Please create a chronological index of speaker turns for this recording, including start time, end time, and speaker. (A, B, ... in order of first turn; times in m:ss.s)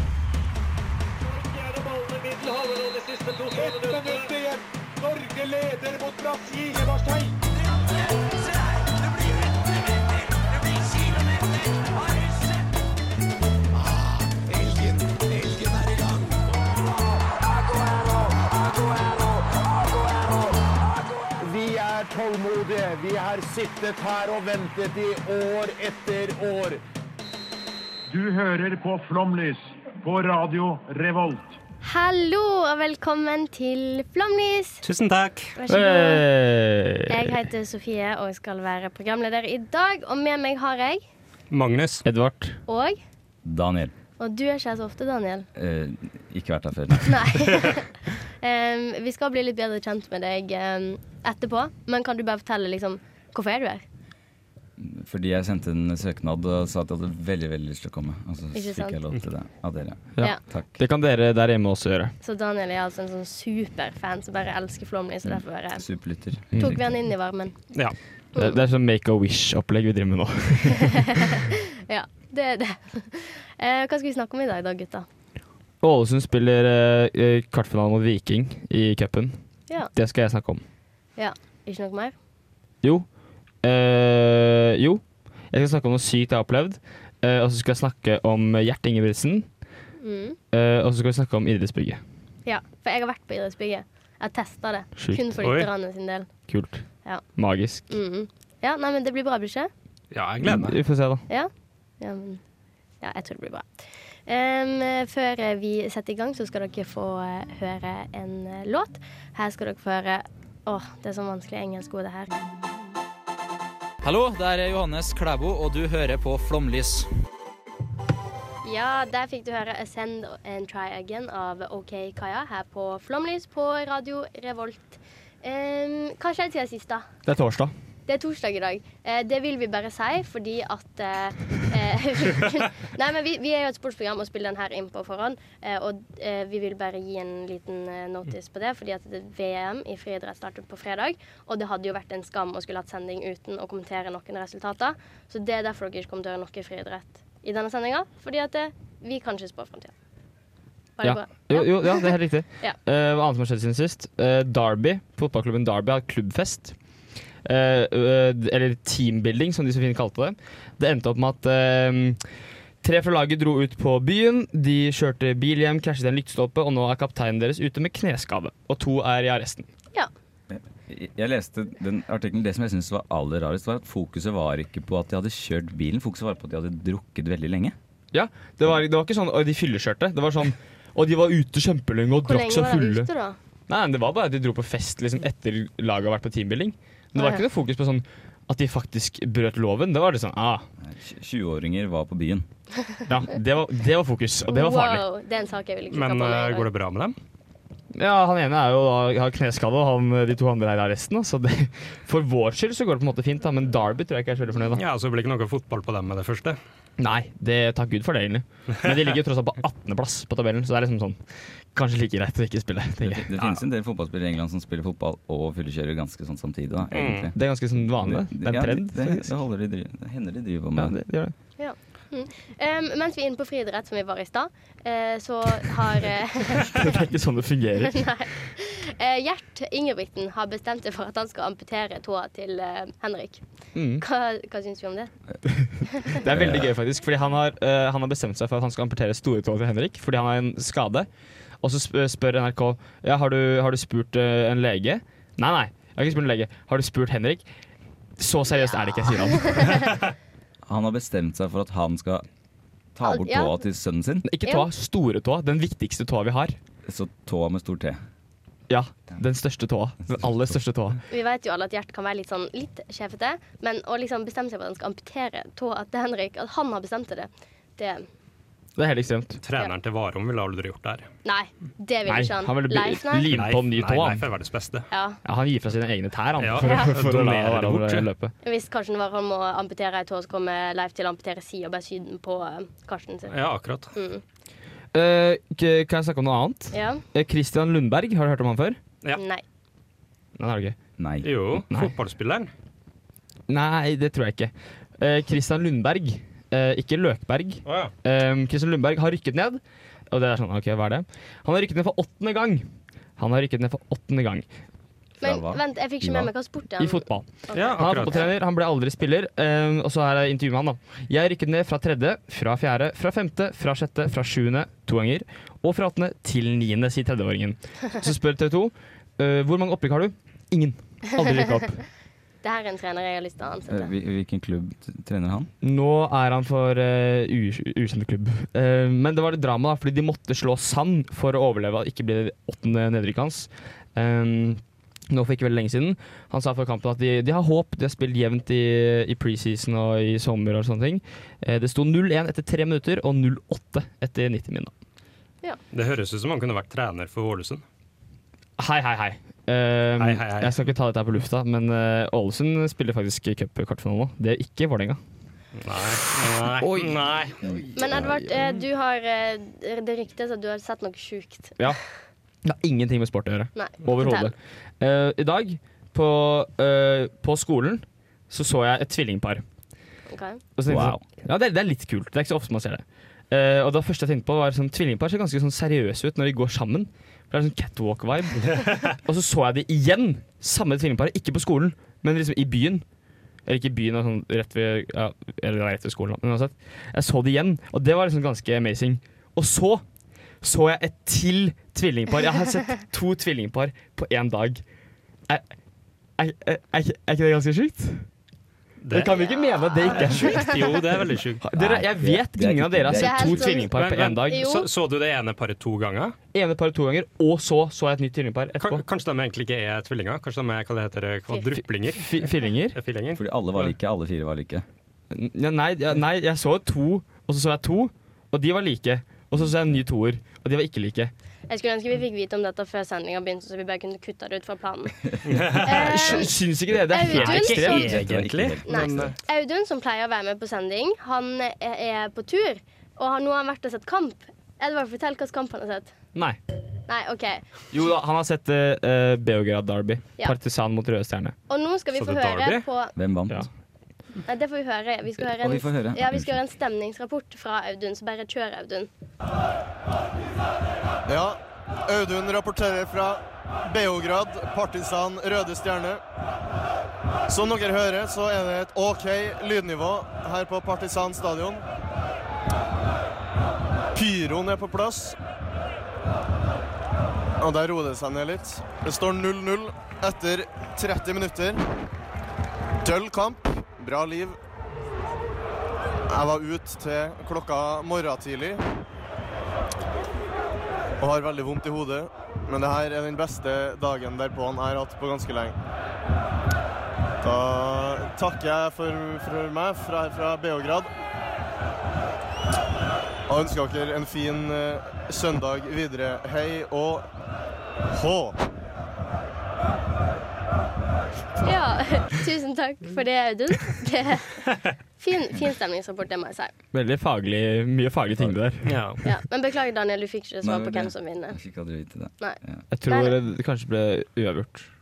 0:01.4-0:07.4 A
0:13.8-0:26.8 B
0:28.1-0:31.6 C
0:31.8-0:34.8 D
0:34.8-0:35.6 E
0:35.6-0:36.3 D
0:35.7-0:37.4 F
0:37.1-0:41.0 D
0:41.5-0:42.0 E
0:42.0-0:42.6 F
0:42.7-0:43.0 D
0:43.4-0:43.9 G
0:44.2-0:45.5 D
0:45.6-0:47.4 G
0:47.1-0:53.8 D
0:54.8-1:00.8 G
0:58.5-0:59.0 D
1:00.2-1:02.1 F
1:02.2-1:05.9 D
1:05.3-1:06.9 G
1:06.6-1:07.6 D
1:08.4-1:10.9 F
1:11.0-1:15.1 D
1:15.8-1:20.6 F
1:21.2-1:22.2 D
1:22.8-1:23.1 F
1:23.6-1:29.5 F
1:30.0-1:30.4 D
1:30.5-1:32.0 F
1:32.4-1:36.3 D
1:35.0-1:35.4 F
1:35.4-1:35.7 E
1:36.5-1:37.9 F
1:37.9-1:39.7 D
1:40.1-1:40.8 E
1:40.4-1:41.2 F
1:41.3-1:42.4 D
1:43.0-1:43.7 D
1:44.3-1:52.3 D
1:54.0-1:57.1 H
1:58.6-2:07.1 D
2:07.3-2:07.7 F
2:08.1-2:29.9 D
2:31.0-2:32.8 D
2:31.0-2:36.8 F
2:37.4-2:42.2 F
2:42.8-2:49.7 F
2:50.5-2:57.8 G
2:58.1-3:03.1 F
3:02.2-3:03.4 D
3:03.7-3:10.6 F
3:07.2-3:07.4 D
3:10.8-3:12.5 G
3:13.1-3:15.0 F
3:14.5-3:16.7 D
3:15.9-3:17.2 E
3:17.9-3:24.8 F
3:24.8-3:26.6 E
3:27.0-3:31.2 F
3:31.7-3:33.3 F
3:33.0-3:41.0 G
3:36.9-3:37.3 E
3:37.4-3:39.3 F
3:40.8-3:41.3 F
3:41.6-3:47.0 D
3:46.7-3:48.0 F
3:47.8-3:53.4 D
3:53.8-3:54.0 F
3:54.0-3:55.1 D
3:55.6-4:01.1 F
3:56.3-3:56.7 G
4:01.6-4:07.4 F
4:08.2-4:09.8 F
4:09.3-4:09.8 D
4:10.7-4:12.2 G
4:13.0-4:14.3 G
4:13.0-4:13.5 D
4:14.2-4:16.6 F
4:16.9-4:18.0 G
4:18.7-4:21.0 F
4:21.1-4:28.1 D
4:28.8-4:29.4 F
4:29.4-4:31.1 E
4:31.2-4:33.3 D
4:32.1-4:34.2 F
4:33.3-4:34.9 E
4:34.9-4:35.2 D
4:35.2-4:38.3 F
4:36.4-4:38.1 E
4:36.6-4:36.9 D
4:38.4-4:43.3 D
4:43.3-4:43.9 E
4:44.0-4:44.2 D
4:44.9-4:48.8 F
4:46.7-4:47.0 D
4:49.2-4:49.4 D
4:50.4-4:50.8 F
4:51.0-4:51.4 G
4:51.2-4:52.5 E
4:53.5-5:02.6 F
4:57.7-4:57.9 E
5:03.2-5:04.5 F
5:05.2-5:06.3 G
5:05.2-5:08.3 D
5:06.8-5:21.8 F
5:07.5-5:08.3 E
5:22.4-5:23.9 D
5:23.7-5:25.5 G
5:25.6-5:44.7 F
5:45.7-5:47.6 E
5:48.6-5:55.0 F
5:50.0-5:50.6 E
5:55.6-5:57.4 E
5:56.6-5:57.0 F
5:57.4-5:58.1 G
5:57.8-6:01.6 D
6:02.4-6:09.4 F
6:03.6-6:04.3 D
6:10.1-6:10.4 D
6:10.6-6:22.8 F
6:10.7-6:11.0 G
6:23.5-6:29.8 F
6:30.4-6:34.6 F
6:36.2-6:38.1 F
6:38.8-6:39.1 E
6:38.9-6:40.6 F
6:40.0-6:41.4 E
6:41.4-6:44.5 F
6:41.5-6:43.5 G
6:42.9-6:44.7 D
6:43.7-6:46.2 E
6:46.3-6:48.8 F
6:48.6-6:53.7 E
6:51.9-6:52.8 F
6:53.1-6:54.6 G
6:55.1-7:01.1 F
7:01.5-7:08.0 D
7:05.3-7:05.7 E
7:05.7-7:07.9 F
7:07.1-7:09.1 E
7:07.5-7:09.1 G
7:08.7-7:15.9 D
7:16.9-7:17.4 D
7:17.7-7:21.4 F
7:21.5-7:22.9 D
7:22.0-7:22.6 E
7:23.0-7:23.4 G
7:24.3-7:28.9 D
7:25.4-7:26.4 G
7:31.1-7:36.0 I
7:37.3-7:41.6 I
7:44.0-7:45.2 I
7:47.4-7:51.6 I
7:52.8-7:54.4 I
7:56.1-7:58.6 I
8:01.0-8:05.6 I
8:07.2-8:10.9 I
8:13.3-8:17.1 I
8:17.9-8:18.4 I
8:21.4-8:26.5 D
8:26.7-8:28.7 F
8:28.6-8:29.0 E
8:29.0-8:31.4 D
8:30.4-8:32.6 G
8:32.2-8:33.2 D
8:32.7-8:34.7 F